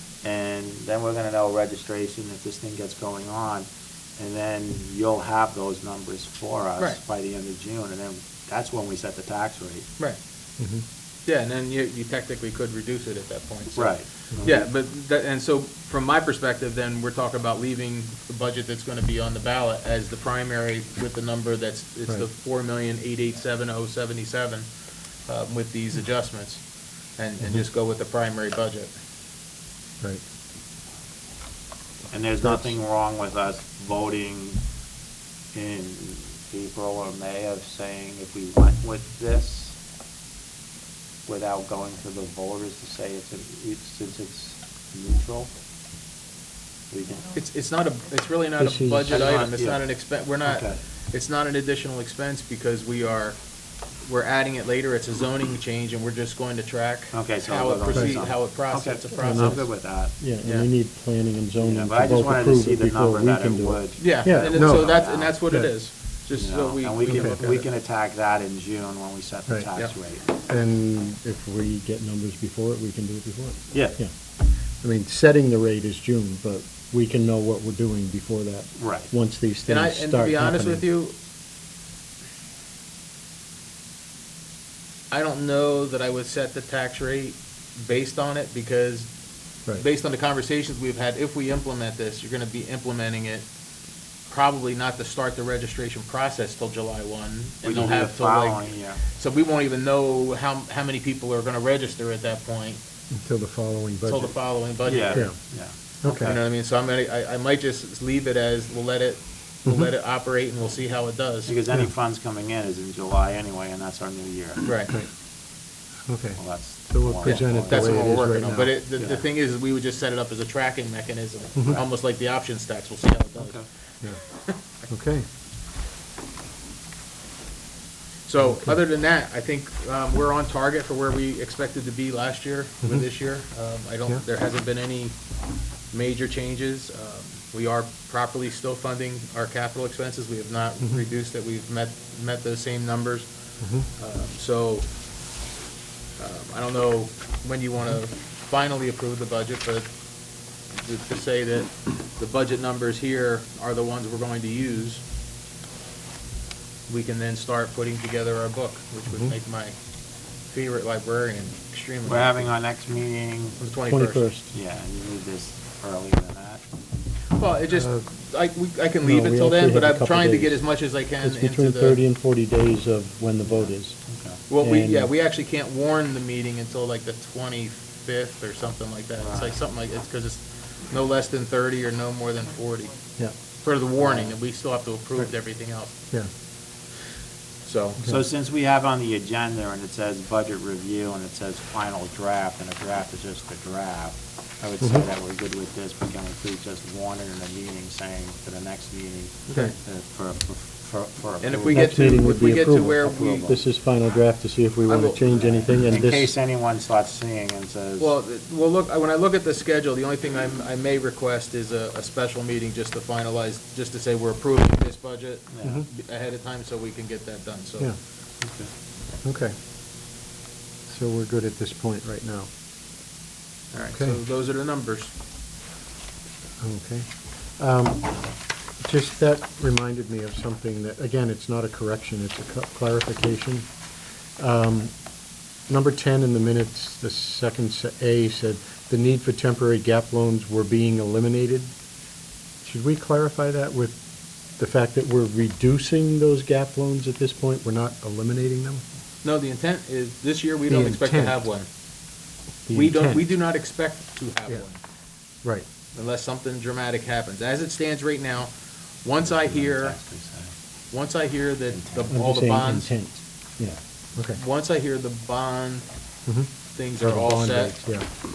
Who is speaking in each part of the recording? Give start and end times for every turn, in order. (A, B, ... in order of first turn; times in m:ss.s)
0:00.2-0:09.9 A
0:10.6-0:10.8 B
0:11.2-0:24.7 C
0:13.7-0:14.7 A
0:25.3-0:26.6 C
0:27.2-0:28.9 C
0:32.1-0:34.6 A
0:32.4-0:32.7 B
0:35.5-0:39.8 A
0:41.2-0:45.5 A
0:46.9-0:47.3 A
0:47.3-0:53.4 C
0:48.6-0:49.2 B
0:49.1-0:49.8 A
0:50.4-0:50.8 A
0:54.0-0:59.7 C
0:57.1-1:00.2 A
0:57.9-0:58.2 B
0:59.1-1:05.7 B
1:00.4-1:00.7 C
1:01.6-1:05.3 A
1:04.0-1:07.6 C
1:06.3-1:10.4 A
1:07.0-1:07.6 B
1:10.3-1:14.1 B
1:13.7-1:14.0 A
1:14.8-1:20.8 B
1:18.8-1:19.1 A
1:19.7-1:21.1 C
1:25.1-1:29.1 C
1:29.7-1:33.4 C
1:34.3-1:42.8 C
1:37.6-1:39.0 A
1:43.1-1:44.4 B
1:44.0-1:45.5 C
1:44.8-1:46.3 A
1:45.1-1:45.4 B
1:46.0-1:46.4 B
1:46.0-1:51.6 C
1:49.6-1:49.9 B
1:51.4-1:54.6 A
1:54.6-1:54.9 C
1:56.0-1:58.7 B
1:56.4-1:58.2 A
1:57.2-2:04.6 C
1:59.0-1:59.2 A
2:01.6-2:01.8 B
2:03.4-2:03.6 A
2:04.9-2:05.2 B
2:08.3-2:15.2 C
2:08.4-2:08.8 B
2:15.9-2:24.9 C
2:23.6-2:23.9 B
2:26.2-2:29.8 C
2:30.7-2:35.0 C
2:36.9-2:39.7 C
2:39.1-2:39.3 B
2:40.4-2:42.5 C
2:42.0-2:43.6 A
2:43.6-2:44.3 C
2:43.9-2:44.5 B
2:44.5-2:46.6 A
2:47.3-2:52.0 C
2:47.7-2:48.0 B
2:49.0-2:50.6 B
2:51.2-2:54.0 B
2:53.5-2:54.4 A
2:54.5-3:03.0 C
2:54.6-2:55.1 B
2:59.2-2:59.6 A
3:03.6-3:05.9 C
3:04.0-3:04.3 A
3:07.6-3:08.0 C
3:08.0-3:22.2 A
3:21.4-3:23.5 C
3:21.7-3:26.3 B
3:23.0-3:23.6 A
3:24.9-3:25.3 C
3:25.3-3:28.1 A
3:28.0-3:37.9 C
3:35.5-3:35.8 A
3:38.4-3:38.7 A
3:39.2-3:39.5 B
3:40.9-3:42.5 B
3:43.7-3:45.1 C
3:43.9-3:44.2 B
3:46.6-3:53.7 B
3:54.4-3:55.0 B
3:55.7-4:01.7 B
4:02.6-4:04.0 B
4:04.5-4:08.8 B
4:09.2-4:11.7 C
4:10.7-4:11.4 B
4:12.6-4:13.3 B
4:12.7-4:14.8 C
4:15.9-4:20.0 C
4:19.2-4:20.5 A
4:20.9-4:22.9 C
4:21.7-4:22.2 A
4:22.1-4:24.4 B
4:24.3-4:25.8 C
4:26.3-4:28.1 B
4:26.7-4:27.9 C